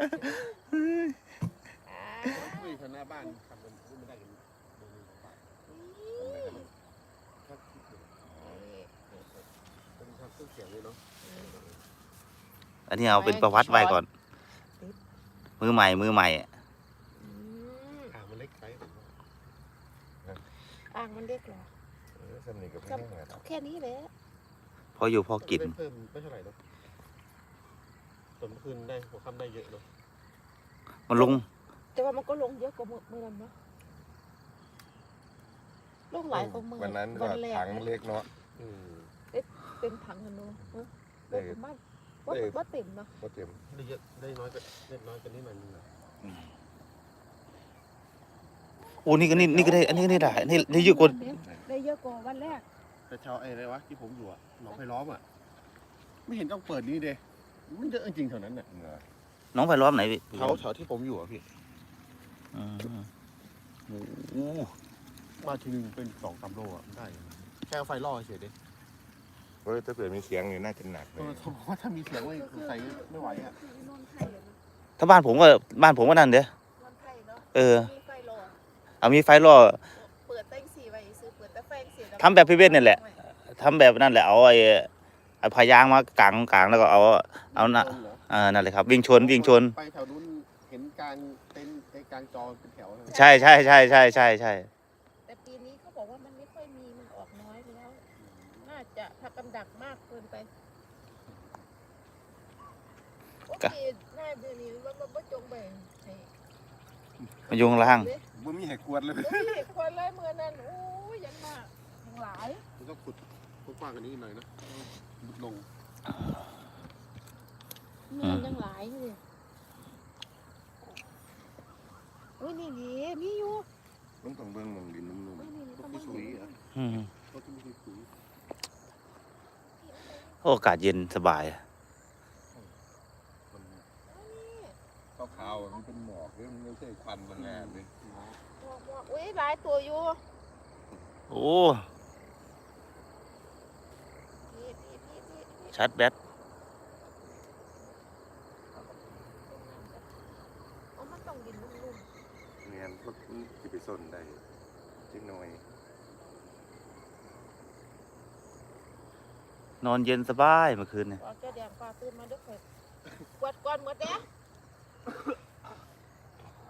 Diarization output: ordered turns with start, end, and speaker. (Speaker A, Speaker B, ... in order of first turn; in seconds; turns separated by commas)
Speaker A: 0.7-1.1, Speaker B: 1.8-3.3, Speaker C: 2.3-5.4, Speaker B: 5.7-6.6, Speaker C: 6.2-6.7, Speaker D: 6.3-6.7, Speaker C: 7.5-8.7, Speaker B: 8.4-9.2, Speaker C: 10.0-11.8, Speaker B: 11.2-11.6, Speaker A: 12.9-14.1, Speaker B: 13.1-14.0, Speaker A: 15.6-16.5, Speaker B: 17.1-18.1, Speaker C: 18.1-19.1, Speaker B: 20.9-21.7, Speaker D: 22.2-23.4, Speaker B: 22.9-24.1, Speaker A: 25.0-25.8, Speaker C: 25.4-26.6, Speaker C: 28.4-29.9, Speaker A: 31.1-31.5, Speaker B: 31.1-31.4, Speaker B: 31.9-33.5, Speaker B: 36.1-37.9, Speaker C: 36.3-36.7, Speaker D: 36.8-38.3, Speaker C: 38.6-39.1, Speaker B: 39.3-43.1, Speaker D: 41.3-41.6, Speaker D: 42.3-42.6, Speaker D: 43.2-43.6, Speaker C: 43.7-45.9, Speaker A: 49.0-51.2, Speaker C: 49.3-50.2, Speaker D: 49.5-50.1, Speaker B: 49.6-52.6, Speaker C: 53.1-55.2, Speaker C: 56.3-58.7, Speaker D: 58.7-59.0, Speaker A: 59.5-60.6, Speaker C: 60.3-61.5, Speaker A: 62.5-63.1, Speaker A: 63.9-64.7, Speaker C: 65.4-68.5, Speaker D: 69.6-71.5, Speaker C: 71.2-73.6, Speaker B: 72.2-74.6, Speaker A: 75.0-76.5, Speaker B: 76.8-78.6, Speaker A: 77.5-77.9, Speaker A: 79.0-79.8, Speaker B: 79.9-83.2, Speaker A: 82.2-84.9, Speaker A: 85.4-89.7, Speaker C: 87.5-88.2, Speaker C: 89.0-93.3, Speaker B: 93.1-94.3, Speaker A: 93.1-94.7, Speaker B: 95.3-98.0, Speaker C: 98.2-98.7, Speaker B: 98.6-100.5, Speaker B: 103.5-106.3, Speaker A: 107.5-108.1, Speaker B: 107.5-108.2, Speaker D: 108.3-109.6, Speaker B: 109.2-112.6, Speaker C: 112.8-115.7, Speaker B: 118.1-119.2, Speaker B: 122.4-123.7, Speaker D: 124.2-125.6, Speaker B: 125.4-126.6, Speaker C: 125.8-126.4, Speaker D: 126.1-126.5, Speaker A: 126.8-127.1, Speaker C: 127.3-128.1, Speaker B: 129.7-130.4, Speaker A: 130.4-131.6, Speaker C: 133.5-133.8, Speaker B: 134.1-134.8, Speaker D: 135.2-137.9, Speaker C: 137.4-138.4, Speaker B: 138.5-140.2, Speaker A: 141.3-141.8, Speaker B: 144.5-145.8, Speaker A: 145.7-146.1, Speaker B: 149.5-150.1, Speaker B: 150.9-152.1, Speaker D: 152.6-154.4, Speaker D: 155.1-155.6, Speaker A: 159.8-161.2, Speaker B: 161.2-162.6, Speaker B: 163.3-164.2